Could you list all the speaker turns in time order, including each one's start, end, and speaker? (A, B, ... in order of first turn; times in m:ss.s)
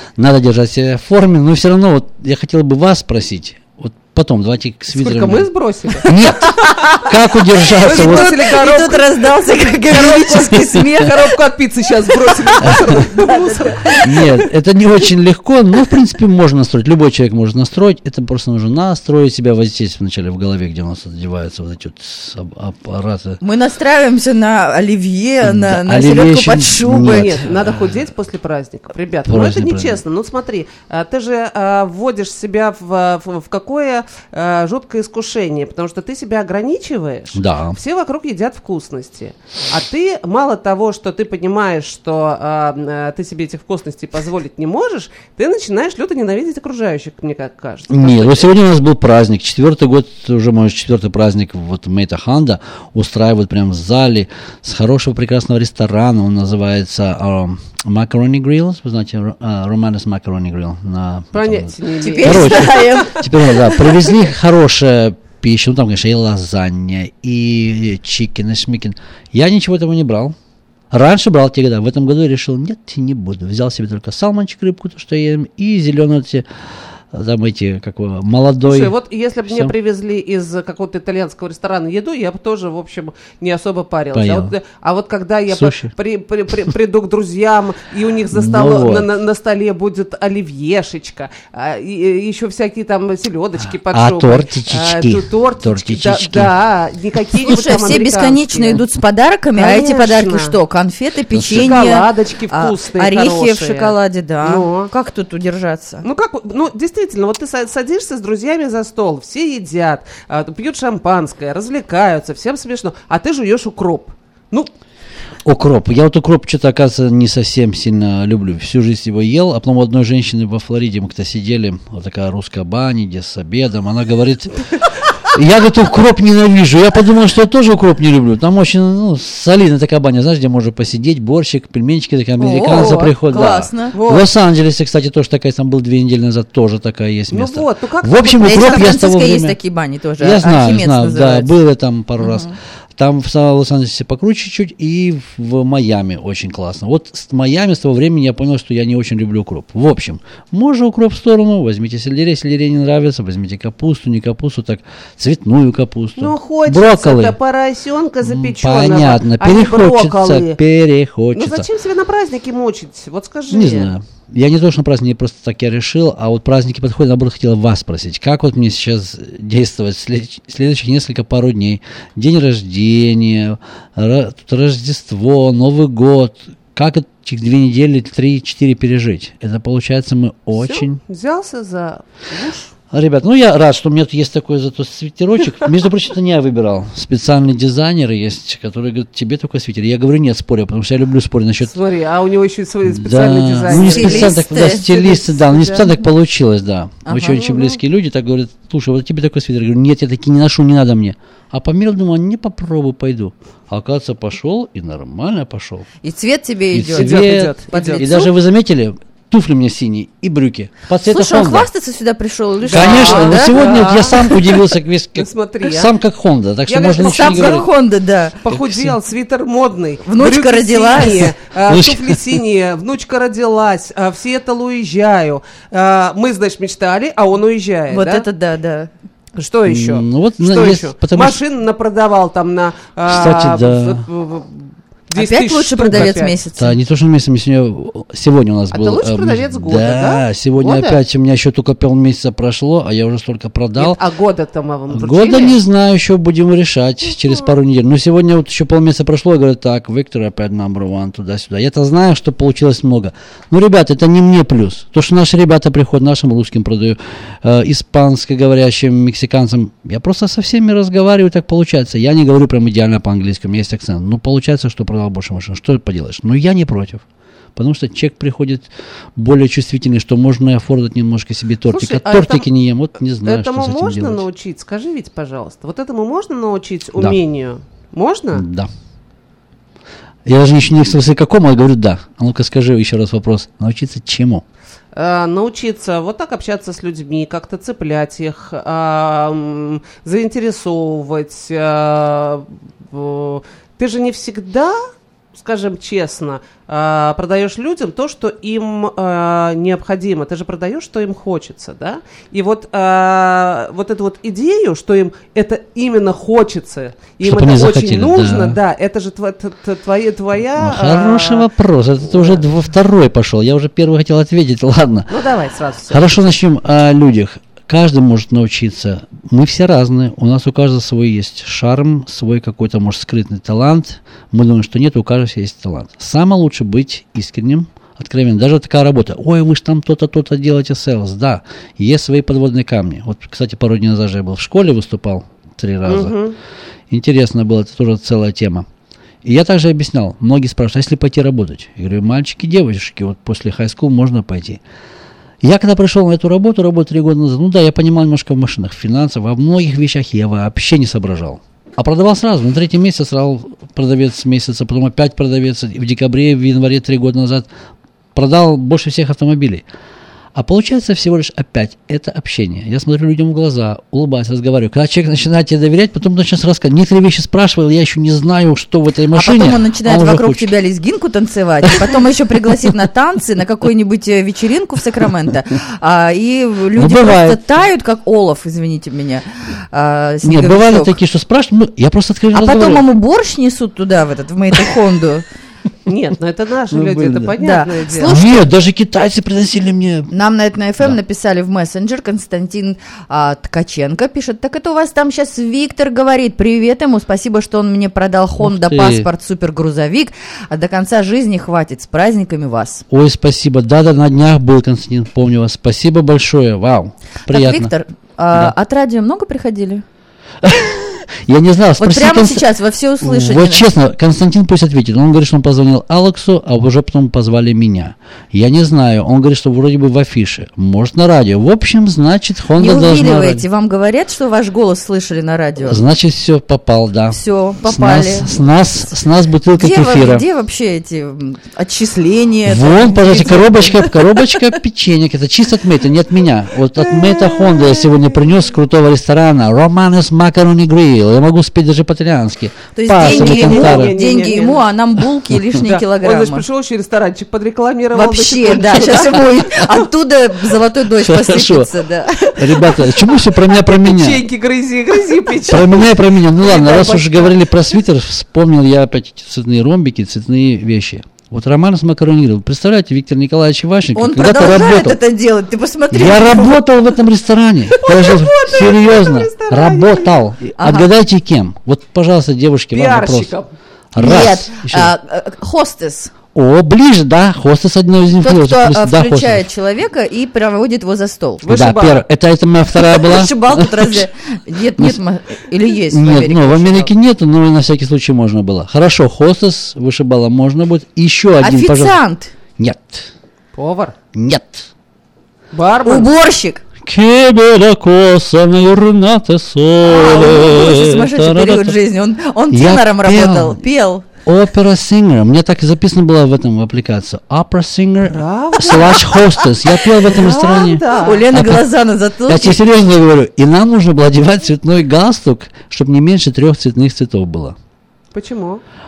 0:00.2-0:05.5 A
0:04.9-0:06.0 B
0:06.0-0:07.1 C
0:06.0-0:08.4 A
0:07.8-0:14.3 B
0:07.9-0:11.1 C
0:12.7-0:14.0 C
0:14.0-0:23.4 A
0:23.4-0:27.3 C
0:25.4-0:28.0 A
0:27.0-0:48.6 B
0:29.2-0:30.0 A
0:37.3-0:37.8 A
0:47.9-1:10.4 A
1:01.3-1:03.1 B
1:02.0-1:03.8 C
1:10.9-1:16.5 A
1:17.1-1:18.9 A
1:18.7-1:38.8 B
1:19.5-1:19.7 A
1:24.1-1:24.5 A
1:25.5-1:25.9 A
1:28.3-1:29.1 A
1:33.6-1:36.5 A
1:37.4-1:46.0 C
1:39.5-1:40.5 B
1:41.3-1:41.8 A
1:41.4-1:44.9 B
1:46.0-1:54.7 B
1:55.4-2:04.6 A
2:05.2-2:19.6 A
2:12.4-2:14.0 C
2:12.7-2:13.1 B
2:13.9-2:14.3 B
2:17.3-2:19.0 B
2:18.4-2:21.5 C
2:20.2-2:37.4 A
2:22.2-2:22.5 C
2:36.2-2:40.6 B
2:38.2-2:41.7 A
2:41.3-2:43.9 B
2:43.5-3:01.0 A
3:00.6-3:02.7 B
3:02.9-3:11.7 A
3:11.7-3:15.8 B
3:12.9-3:25.9 A
3:13.7-3:15.0 C
3:17.0-3:17.7 C
3:26.0-3:28.3 C
3:26.7-3:31.7 A
3:26.9-3:28.1 B
3:31.0-3:33.6 C
3:32.7-3:37.7 A
3:32.7-3:35.9 B
3:36.7-3:37.7 B
3:37.0-3:38.4 C
3:38.4-3:48.3 B
3:38.5-3:39.0 A
3:40.0-3:41.3 C
3:41.7-3:42.2 A
3:47.9-3:48.9 C
3:49.4-3:56.4 B
3:49.7-3:51.4 A
3:53.1-3:54.0 A
3:55.1-3:56.8 C
3:56.6-4:04.0 A
3:58.7-4:01.0 B
4:03.8-4:05.6 B
4:04.9-4:27.0 A
4:27.6-4:34.2 A
4:31.7-4:32.5 B
4:33.2-4:38.5 B
4:38.3-4:38.7 A
4:40.2-4:44.4 A
4:45.0-4:54.8 B
4:55.4-5:11.5 B
5:07.2-5:08.6 A
5:10.5-5:15.1 A
5:12.1-5:12.4 B
5:15.1-5:16.4 B
5:15.9-5:36.1 A
5:35.9-5:36.4 B
5:36.9-5:38.7 A
5:39.2-5:44.6 A
5:45.4-5:57.5 A
5:58.1-5:59.6 A
6:00.4-6:10.5 A
6:09.1-6:21.0 C
6:16.8-6:17.4 A
6:20.2-6:22.8 A
6:22.3-6:25.2 C
6:25.9-6:28.1 B
6:26.7-6:27.4 A
6:27.4-6:28.4 C
6:28.0-6:30.1 A
6:30.1-6:42.8 C
6:38.4-6:39.1 A
6:42.9-6:47.7 A
6:47.3-6:49.8 C
6:50.4-6:52.4 A
6:51.8-6:53.6 C
6:53.0-7:03.4 A
7:02.6-7:05.8 C
7:05.6-7:10.2 A
7:07.1-7:08.4 C
7:09.6-7:14.4 C
7:12.4-7:24.0 A
7:16.9-7:17.9 B
7:22.8-7:26.4 C
7:23.0-7:24.6 B
7:25.6-7:29.2 B
7:27.9-7:32.9 C
7:31.0-7:31.7 A
7:32.4-7:34.2 A
7:33.5-7:37.4 B
7:35.5-7:45.0 A
7:44.0-7:46.6 C
7:45.9-7:53.3 A
7:47.8-7:50.1 B
7:50.6-7:50.9 C
7:52.7-7:53.5 B
7:53.9-7:54.9 A
7:54.0-7:56.1 C
7:56.3-7:59.4 A
7:58.2-8:01.4 C
8:01.4-8:02.0 B
8:01.4-8:04.0 A
8:02.8-8:06.9 C
8:05.9-8:12.0 A
8:11.4-8:12.3 C
8:12.6-8:13.1 A
8:13.5-8:14.0 B
8:14.1-8:14.7 A
8:15.5-8:16.1 B
8:15.9-8:16.6 C
8:16.8-8:21.8 A
8:19.9-8:24.0 C
8:22.5-8:23.6 A
8:24.2-8:31.7 A
8:28.0-8:29.3 B
8:30.0-8:31.2 B
8:30.8-8:32.6 C
8:32.2-8:37.6 A
8:38.1-8:38.6 B